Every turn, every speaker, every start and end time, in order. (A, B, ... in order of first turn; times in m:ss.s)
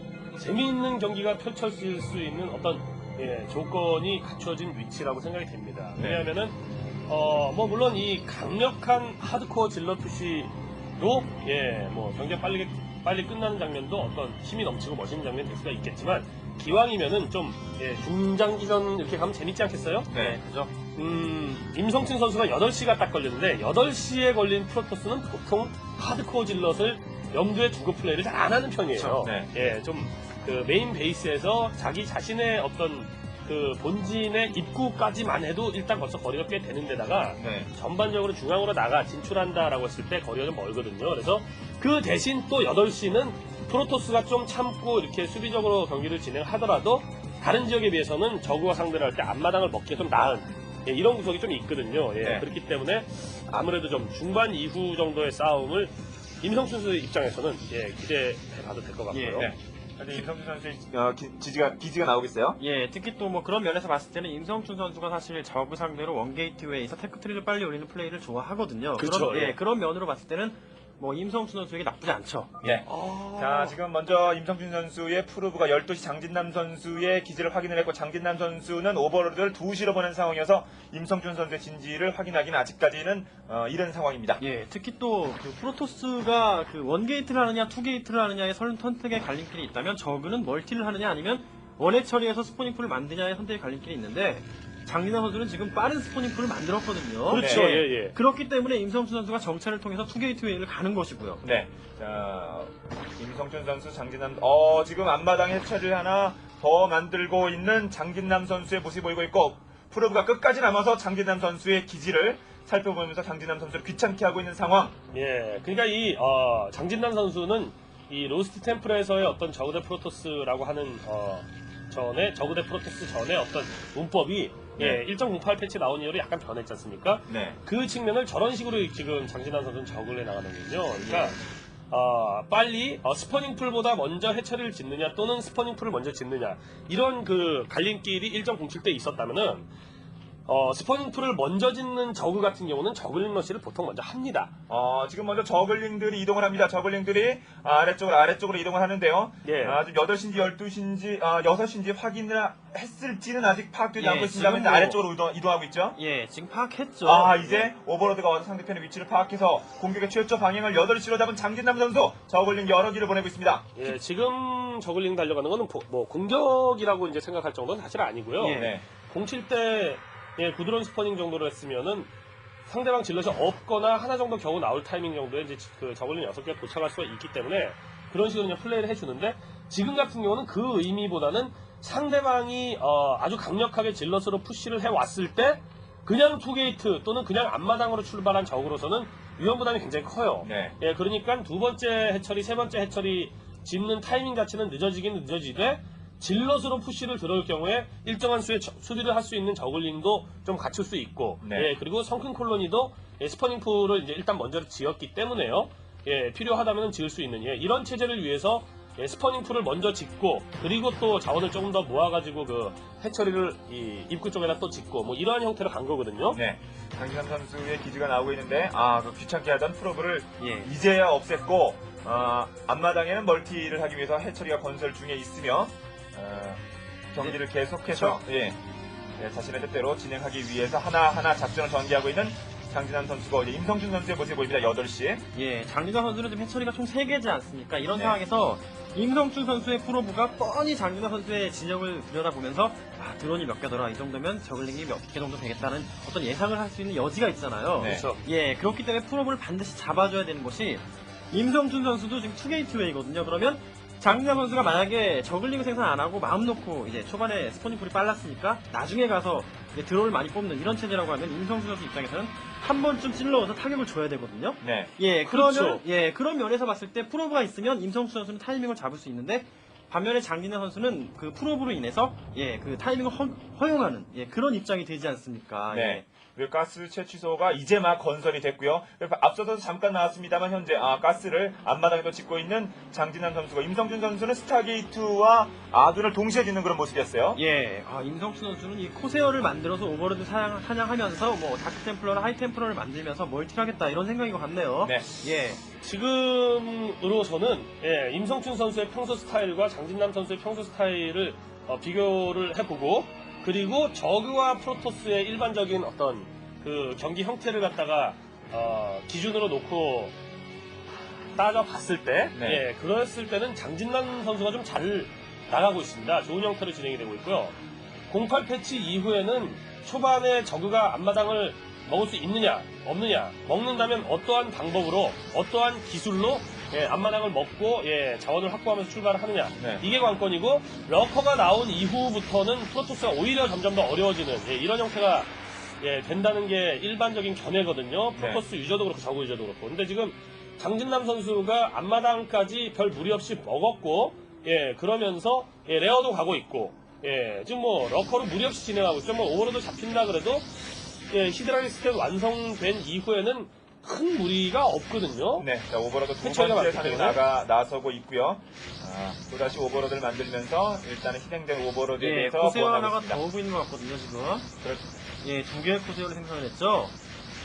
0:00.4-0:20.1 A
0:06.0-0:06.3 B
0:20.1-0:20.4 B
0:20.1-0:20.7 C
0:20.9-0:59.5 A
0:28.9-0:29.3 C
0:29.2-0:29.5 B
0:37.4-0:37.7 B
0:52.2-0:52.5 B
0:59.1-0:59.5 C
0:59.4-1:02.6 B
1:02.6-1:12.8 C
1:09.0-1:09.6 A
1:12.6-1:24.4 B
1:12.9-1:13.7 A
1:24.4-1:41.4 C
1:37.3-1:38.2 A
1:37.3-1:37.7 B
1:41.4-1:55.0 B
1:55.1-2:11.4 A
2:07.3-2:07.6 B
2:11.0-2:11.4 C
2:11.9-2:19.7 A
2:20.4-2:24.5 A
2:24.7-2:36.0 B
2:29.4-2:29.8 A
2:34.0-2:35.0 C
2:36.0-2:37.7 C
2:37.0-2:43.7 B
2:43.8-2:52.1 A
2:48.4-2:48.8 C
2:48.5-2:48.8 B
2:52.6-3:36.4 A
3:10.4-3:10.8 B
3:21.4-3:21.7 B
3:36.3-3:48.6 B
3:40.4-3:40.7 C
3:47.9-3:48.2 C
3:49.2-3:55.2 B
3:55.3-4:36.0 C
3:57.9-3:58.2 B
4:07.8-4:08.1 B
4:07.8-4:08.2 A
4:24.6-4:24.9 B
4:25.3-4:25.8 A
4:35.7-4:47.4 B
4:47.3-4:55.6 C
4:54.8-4:55.1 B
4:55.8-5:10.1 A
5:11.4-5:17.6 A
5:12.3-5:12.6 B
5:18.1-5:55.5 A
5:29.6-5:29.8 B
5:38.1-5:38.4 B
5:55.4-6:03.2 B
5:56.2-5:57.2 A
6:02.0-6:04.5 C
6:05.2-6:06.9 C